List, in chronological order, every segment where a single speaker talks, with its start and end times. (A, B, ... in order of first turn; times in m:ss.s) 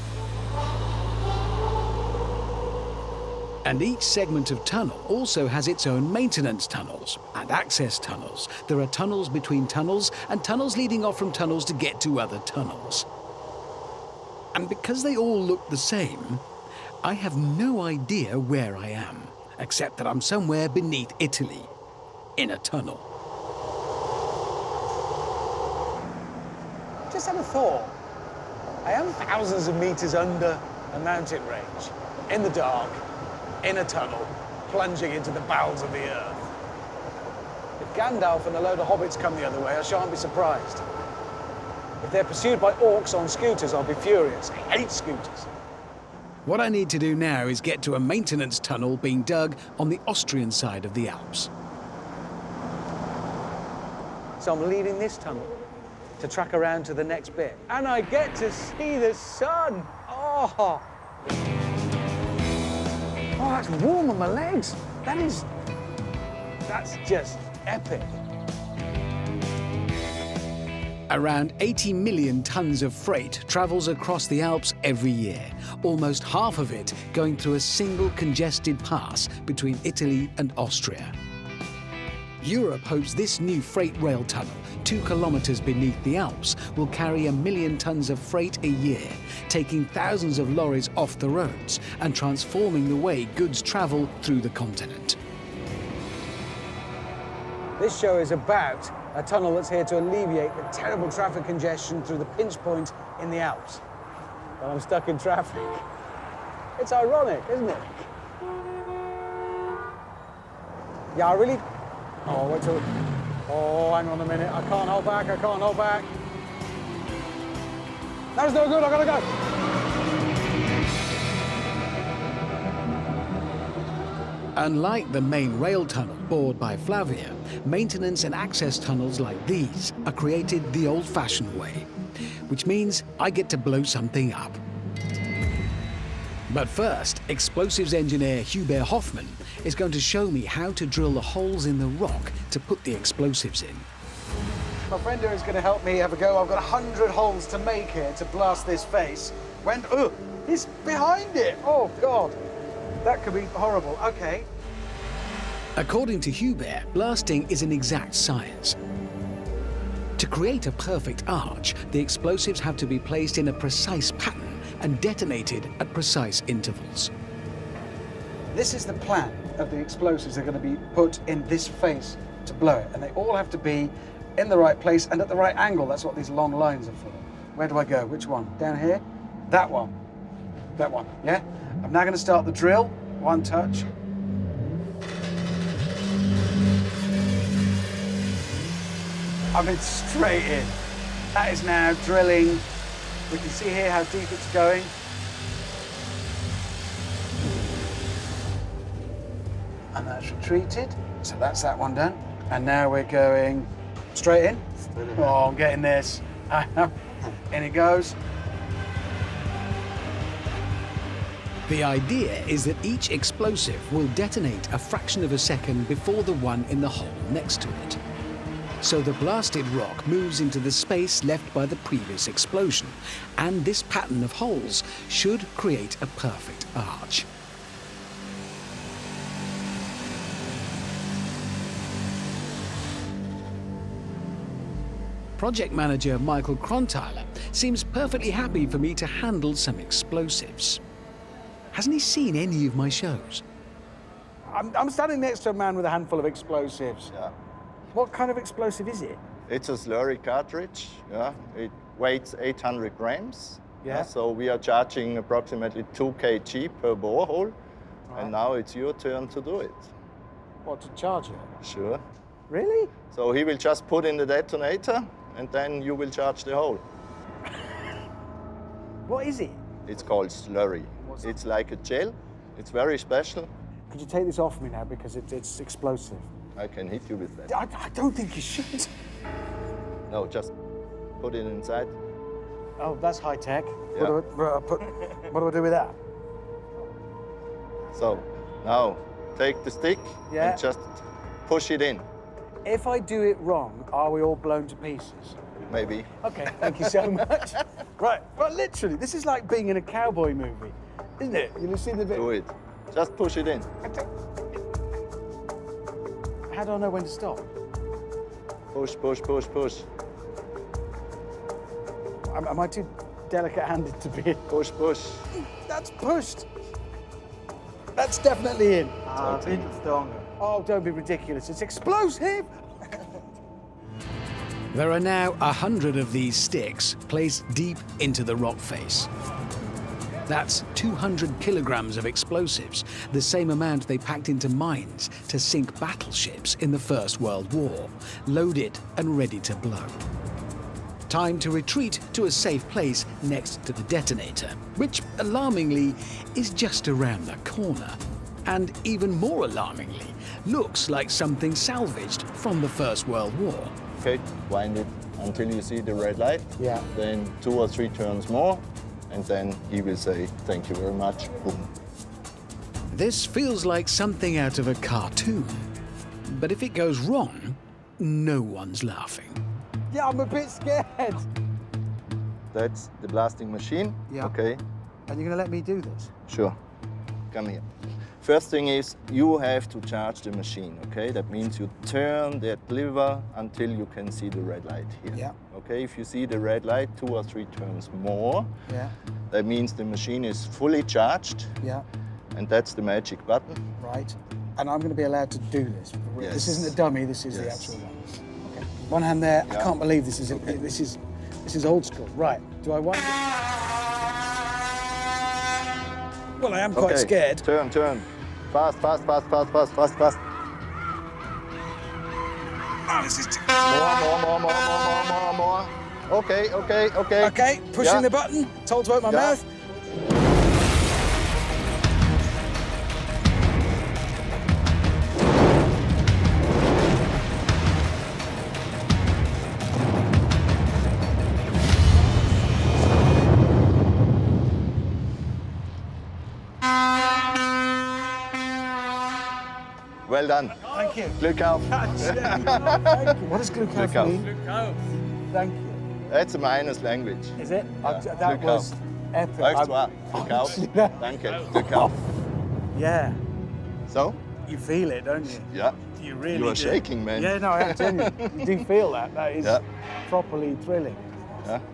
0:03.6-0:13.1 A
0:14.5-0:16.4 A
0:17.0-0:21.7 A
0:22.4-0:23.0 A
0:27.1-0:28.0 B
0:28.8-0:33.0 B
0:33.6-0:36.5 B
0:37.8-0:40.8 B
0:42.0-0:45.5 B
0:46.4-0:51.5 A
0:54.4-0:55.5 B
0:56.2-1:00.8 B
1:03.4-1:05.5 B
1:06.7-1:08.2 B
1:11.1-1:21.1 A
1:22.4-1:35.2 A
1:37.8-1:43.8 B
1:44.6-1:45.8 B
1:46.8-1:48.1 B
1:51.1-1:51.6 B
1:52.2-1:52.9 B
1:53.5-1:56.1 B
1:58.3-1:59.3 B
2:04.6-2:11.9 A
2:12.5-2:14.6 A
2:16.5-2:23.9 A
2:24.9-2:32.4 B
2:33.0-2:34.5 B
2:35.8-2:38.8 A
2:40.2-2:47.1 A
2:48.5-2:59.9 B
3:00.8-3:03.9 B
3:09.5-3:10.8 B
3:11.3-3:12.6 B
3:13.3-3:14.9 B
3:19.9-3:28.2 B
3:31.7-3:38.0 A
3:38.8-3:47.3 A
3:55.4-4:00.8 A
4:01.7-4:03.4 A
4:04.5-4:07.1 B
4:07.9-4:09.2 B
4:09.5-4:17.5 C
4:13.8-4:14.1 B
4:18.1-4:19.9 C
4:20.6-4:21.5 B
4:21.6-4:22.0 C
4:22.5-4:22.9 B
4:23.1-4:26.8 C
4:29.1-4:29.6 B
4:29.8-4:33.5 C
4:31.0-4:31.3 B
4:33.9-4:36.3 B
4:36.6-4:37.5 C
4:37.5-4:38.9 B
4:40.1-4:40.5 C
4:41.2-4:41.9 C
4:42.8-4:46.0 B
4:47.9-4:52.0 C
4:50.3-4:50.6 B
4:52.6-4:55.4 B
4:55.7-4:57.0 C
4:56.2-5:02.3 B
5:02.1-5:03.7 C
5:06.5-5:07.4 B
5:08.7-5:09.9 C
5:12.3-5:14.4 B
5:14.5-5:15.2 C
5:15.6-5:16.5 B
5:18.0-5:19.7 B
5:19.2-5:20.2 C
5:20.4-5:23.2 B
5:24.7-5:29.1 A
5:30.3-5:40.0 A
5:41.1-5:53.8 A
5:54.0-6:01.7 C
5:56.6-5:56.8 B
6:02.9-6:05.7 A
6:06.3-6:09.4 A
6:09.9-6:11.3 B
6:12.5-6:14.6 C
6:15.1-6:16.1 B
6:16.3-6:16.6 C
6:17.3-6:17.6 C
6:18.2-6:28.5 C
6:28.7-6:28.9 B
6:29.3-6:31.5 C
6:32.3-6:33.6 C
6:33.8-6:43.3 B
6:36.2-6:36.8 C
6:37.3-6:37.8 C
6:39.5-6:39.7 C
6:40.3-6:40.6 C
6:46.4-6:47.4 B
6:46.7-6:50.2 C
6:52.9-6:53.6 B
6:53.6-6:58.0 C
6:57.2-6:59.4 B
6:59.0-6:59.4 C
7:20.0-7:23.2 C
7:20.7-7:25.8 B
7:23.7-7:24.2 C
7:26.1-7:28.7 C
7:27.4-7:31.9 B
7:29.4-7:32.0 C
7:32.7-7:33.2 B
7:33.9-7:34.2 C
7:34.4-7:41.0 B
7:35.5-7:38.7 C